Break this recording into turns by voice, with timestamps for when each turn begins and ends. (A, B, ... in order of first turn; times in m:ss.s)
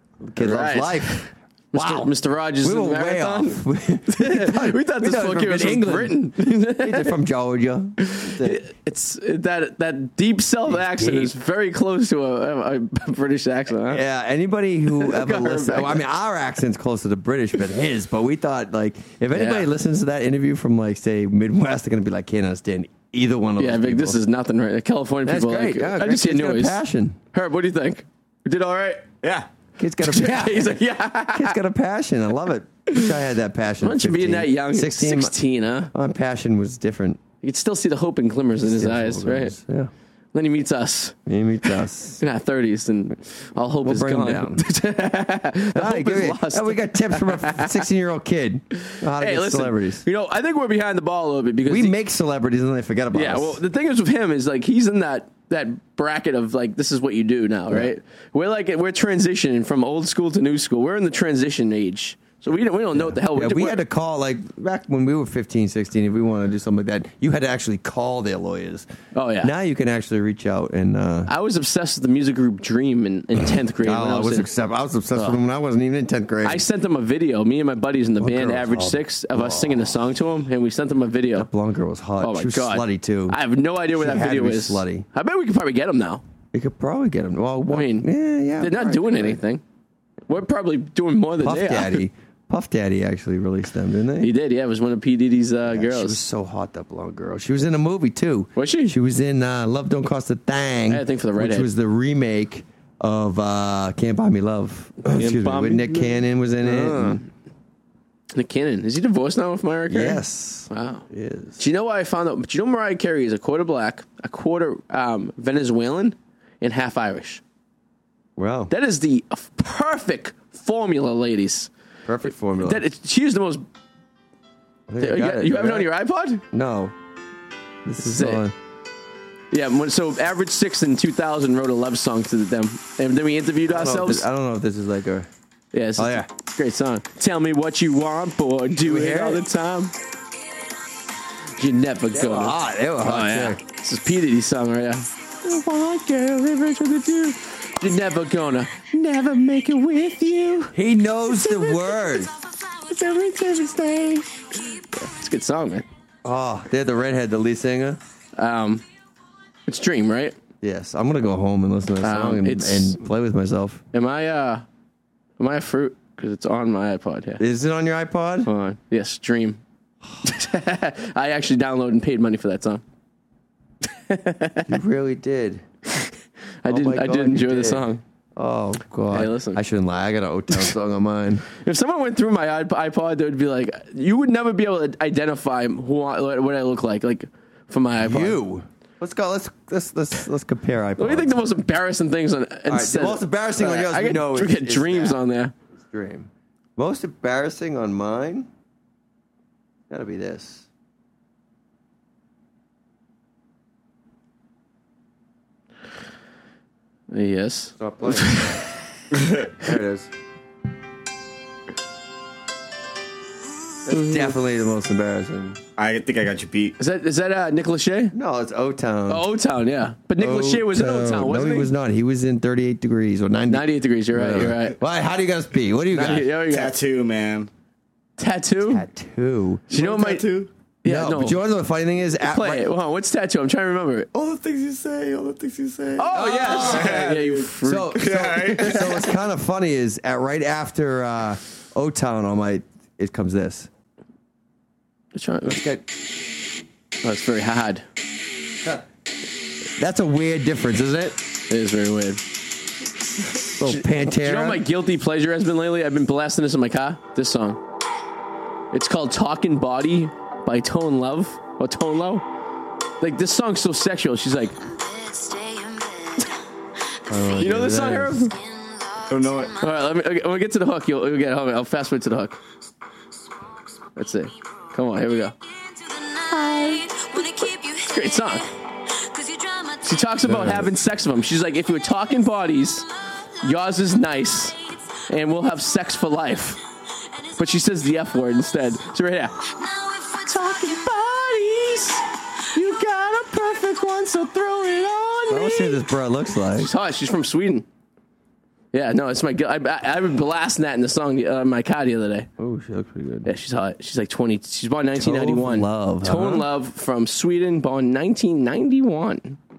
0:00.2-0:02.1 A
0:00.4-0:07.2 B
0:02.6-0:08.6 A
0:08.0-0:14.0 B
0:10.7-0:11.4 A
0:13.9-0:24.2 A
0:14.9-0:16.0 B
0:19.3-0:19.7 B
0:23.6-0:26.8 B
0:25.3-0:27.2 A
0:27.3-0:29.1 B
0:29.2-0:29.5 C
0:29.8-0:35.3 A
0:30.0-0:31.6 B
0:32.9-0:33.2 B
0:33.8-0:35.9 B
0:35.9-0:37.2 A
0:37.4-0:39.6 B
0:38.6-0:39.9 A
0:40.3-0:41.2 B
0:41.3-0:42.2 A
0:42.2-0:47.9 B
0:43.8-0:44.6 A
0:45.7-0:50.0 A
0:48.8-0:52.0 B
0:51.7-0:53.6 A
0:53.1-1:03.8 B
1:03.0-1:08.9 A
1:09.1-1:09.5 B
1:09.4-1:11.3 A
1:11.3-1:14.5 B
1:13.8-1:16.6 A
1:16.4-1:21.5 B
1:18.2-1:20.0 A
1:21.3-1:23.4 A
1:22.2-1:26.2 B
1:23.9-1:25.1 A
1:26.5-1:29.4 A
1:27.7-1:28.1 B
1:28.6-1:29.6 B
1:30.3-1:32.0 B
1:31.4-1:34.3 A
1:34.2-1:36.2 B
1:35.7-1:47.2 A
1:38.6-1:39.0 B
1:40.9-1:41.7 B
1:45.0-1:47.3 B
1:48.3-1:51.0 B
1:49.9-1:51.6 A
1:51.6-1:57.4 B
1:58.4-1:58.7 A
1:58.7-2:01.7 B
2:02.1-2:02.8 A
2:02.6-2:03.6 B
2:04.9-2:05.9 A
2:05.0-2:06.4 B
2:06.5-2:06.9 A
2:07.8-2:08.6 A
2:08.0-2:08.4 B
2:09.5-2:14.3 B
2:13.7-2:15.3 A
2:15.7-2:19.9 B
2:16.0-2:16.3 A
2:18.8-2:19.4 A
2:21.6-2:30.8 B
2:22.1-2:23.6 A
2:30.7-2:32.3 A
2:31.3-2:35.9 B
2:36.2-2:38.0 A
2:38.4-2:38.8 B
2:39.7-2:40.4 B
2:40.6-2:43.8 A
2:42.0-2:43.0 B
2:43.9-2:44.6 B
2:45.4-2:47.4 B
2:47.4-2:48.5 A
2:48.5-2:49.6 B
2:50.2-2:52.8 B
2:53.9-2:54.8 B
2:54.7-2:55.6 A
2:56.6-2:58.0 B
2:56.7-3:01.5 A
2:59.1-2:59.6 B
3:01.6-3:08.4 B
3:08.0-3:11.4 A
3:11.0-3:15.5 B
3:12.7-3:15.2 A
3:15.8-3:18.5 A
3:19.9-3:20.7 A
3:27.1-3:28.8 B
3:27.8-3:28.6 A
3:29.5-3:30.1 A
3:33.9-3:34.4 B
3:33.9-3:35.6 A
3:35.8-3:36.8 C
3:36.8-3:38.2 B
3:38.1-3:39.3 A
3:39.1-3:41.7 B
3:40.2-3:46.3 A
3:43.5-3:44.8 B
3:46.0-3:46.8 B
3:46.0-3:47.5 C
3:48.2-3:48.8 B
3:48.7-3:49.7 A
3:49.7-3:50.3 B
3:49.7-3:50.5 C
3:50.8-3:51.4 B
3:50.8-3:52.7 A
3:52.2-3:54.1 B
3:54.1-3:59.1 C
3:56.0-3:58.9 B
3:56.1-4:03.7 A
4:05.2-4:05.6 B
4:05.4-4:05.8 A
4:07.0-4:07.8 B
4:09.8-4:11.2 A
4:11.5-4:12.3 B
4:13.6-4:14.6 A
4:13.6-4:17.6 B
4:18.7-4:22.2 B
4:23.0-4:26.3 B
4:27.1-4:28.3 A
4:27.3-4:28.4 B
4:29.1-4:29.6 C
4:29.6-4:32.4 B
4:34.0-4:35.4 B
4:36.0-4:38.5 B
4:39.4-4:42.9 B
4:40.2-4:40.7 A
4:43.4-4:46.6 B
4:47.4-4:55.8 B
4:55.3-4:56.7 A
4:56.6-4:57.6 B
4:58.7-5:02.3 B
5:02.4-5:03.3 A
5:03.3-5:09.4 B
5:05.0-5:06.5 A